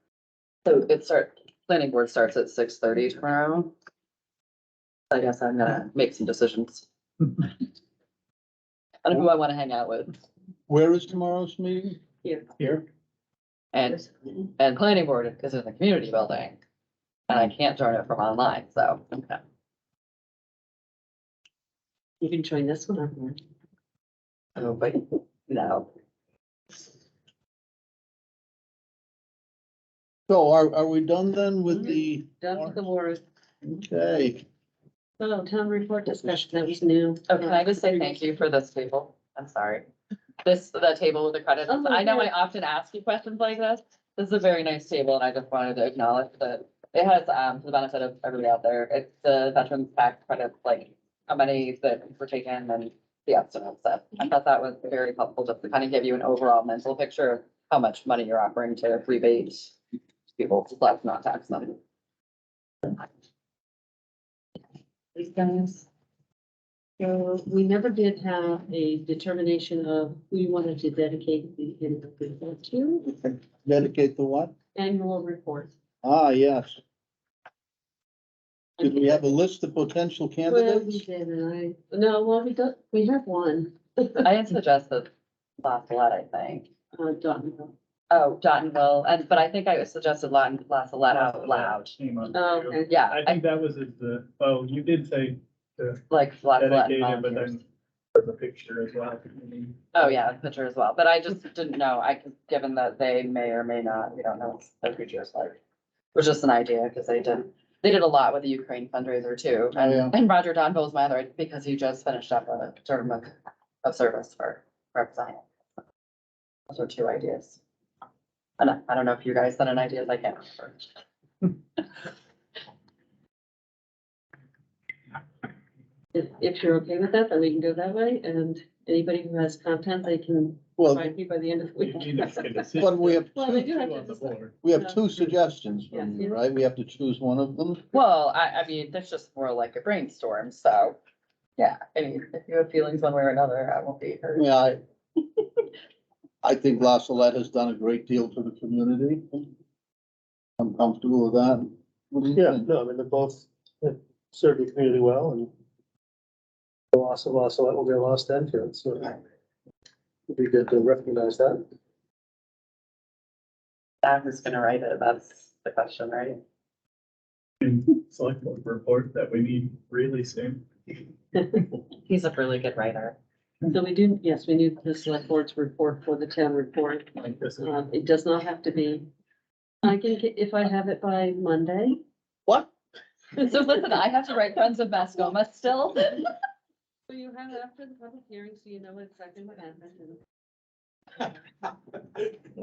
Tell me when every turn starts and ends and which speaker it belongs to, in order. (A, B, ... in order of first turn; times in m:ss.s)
0:00.6-0:03.7 A
0:05.1-0:06.9 A
0:09.0-0:10.1 A
0:10.7-0:12.0 B
0:12.6-0:12.8 B
0:13.7-0:16.6 A
0:17.3-0:19.4 A
0:22.2-0:23.4 C
0:24.6-0:25.9 A
0:30.3-0:32.8 B
0:31.8-0:33.2 C
0:33.6-0:34.4 B
0:35.2-0:38.1 C
0:37.3-0:39.8 A
0:40.4-0:59.8 A
0:41.7-0:42.3 C
1:00.3-1:01.8 A
1:05.1-1:05.9 A
1:07.0-1:13.2 C
1:13.2-1:14.5 B
1:14.7-1:15.7 C
1:16.0-1:16.8 B
1:18.8-1:21.0 B
1:20.5-1:24.2 C
1:24.2-1:25.1 A
1:25.6-1:26.7 A
1:26.9-1:27.7 C
1:28.1-1:31.9 A
1:31.1-1:36.0 D
1:32.3-1:32.9 C
1:32.9-1:33.4 A
1:36.1-1:37.6 A
1:36.6-1:37.6 D
1:38.1-1:40.2 D
1:39.9-1:45.6 A
1:46.1-1:55.4 A
1:49.8-1:50.1 B
1:56.7-1:57.6 A
1:58.6-2:00.9 A
2:06.1-2:12.8 C
2:10.8-2:11.1 B
2:11.8-2:14.6 D
2:12.8-2:13.6 B
2:13.3-2:15.0 C
2:14.6-2:17.8 B
2:15.9-2:16.4 C
2:17.9-2:21.0 A
2:21.6-2:24.5 A
2:24.4-2:24.8 B
2:26.4-2:29.5 B
2:30.6-2:32.7 B
2:32.3-2:35.5 E
2:36.9-2:39.2 E
2:40.3-2:41.6 E
2:44.0-2:46.4 A
2:47.6-2:50.7 D
2:52.0-2:53.2 A
2:53.7-2:59.1 C
2:57.2-2:57.8 D
2:59.8-3:02.0 C
3:03.4-3:06.3 A
3:07.1-3:10.2 C